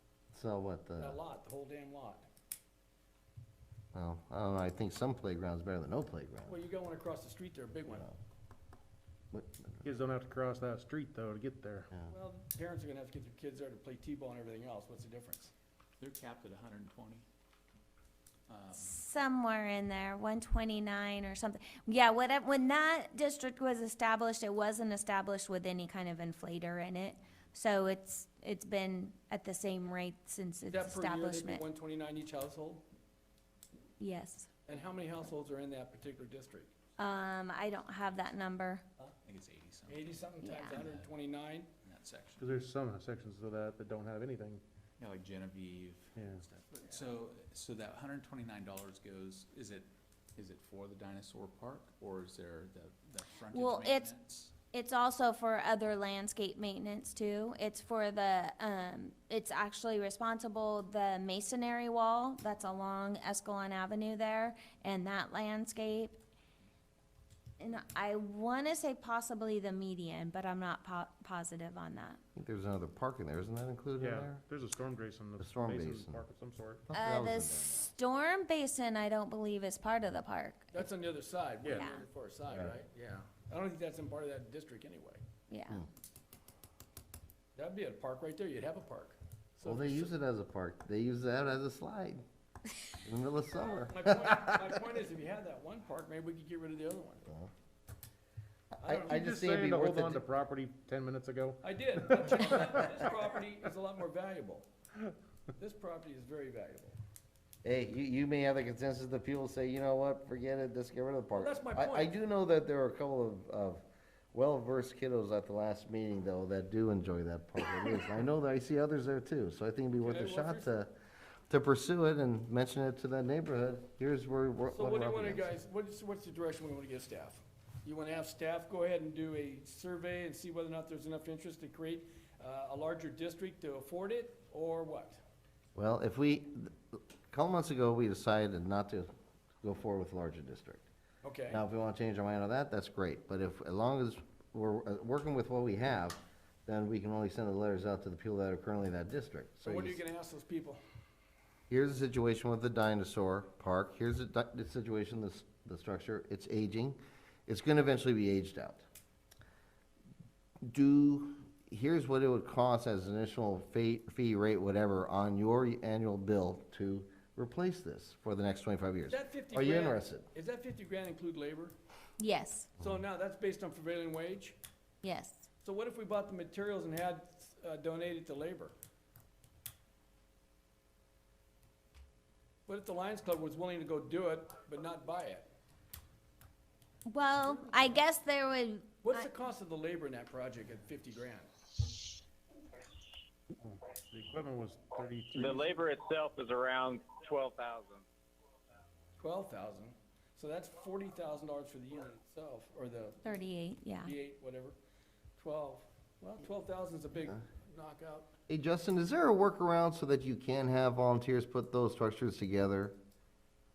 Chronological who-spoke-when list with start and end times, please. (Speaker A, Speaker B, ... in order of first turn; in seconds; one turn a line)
Speaker A: 0.3-1.2
Speaker B: 1.0-2.3
Speaker A: 3.9-6.6
Speaker B: 6.5-8.1
Speaker A: 9.3-9.9
Speaker C: 9.8-11.9
Speaker B: 12.1-15.5
Speaker D: 16.0-17.3
Speaker D: 18.5-19.0
Speaker E: 18.7-31.6
Speaker B: 30.7-32.9
Speaker E: 34.0-34.5
Speaker B: 34.7-36.7
Speaker E: 37.0-38.8
Speaker D: 39.2-41.1
Speaker B: 39.9-41.7
Speaker E: 40.4-40.8
Speaker D: 41.8-42.4
Speaker C: 42.4-44.6
Speaker D: 45.0-54.5
Speaker C: 46.2-46.4
Speaker E: 53.5-54.1
Speaker E: 54.7-66.2
Speaker E: 67.6-72.2
Speaker A: 72.3-74.4
Speaker C: 74.0-76.8
Speaker A: 75.4-76.2
Speaker A: 76.9-77.9
Speaker E: 76.9-80.8
Speaker B: 80.7-85.2
Speaker E: 81.7-82.0
Speaker E: 85.5-85.8
Speaker B: 87.6-90.1
Speaker A: 89.6-92.2
Speaker A: 93.0-94.6
Speaker B: 93.9-97.2
Speaker A: 98.8-100.2
Speaker B: 98.8-99.2
Speaker C: 99.1-101.6
Speaker B: 101.6-104.7
Speaker C: 102.3-103.0
Speaker B: 105.6-107.0
Speaker A: 107.6-120.9
Speaker B: 111.4-112.2
Speaker B: 120.0-120.7
Speaker A: 121.5-125.5
Speaker B: 124.7-135.2
Speaker A: 135.8-139.1
Speaker A: 139.6-140.9
Speaker B: 141.2-141.6
Speaker A: 141.5-150.0
Speaker B: 149.7-150.8
Speaker A: 151.7-158.8
Speaker A: 160.7-170.3
Speaker B: 169.1-171.8
Speaker E: 172.2-172.7
Speaker B: 172.8-174.6
Speaker E: 175.0-175.5
Speaker B: 175.6-178.8
Speaker B: 182.7-185.5
Speaker E: 187.1-189.3
Speaker B: 189.0-191.5
Speaker C: 193.6-195.8
Speaker F: 195.3-198.1
Speaker B: 199.2-203.4
Speaker E: 203.2-204.2
Speaker B: 204.0-204.8
Speaker B: 205.4-208.3
Speaker A: 208.5-213.0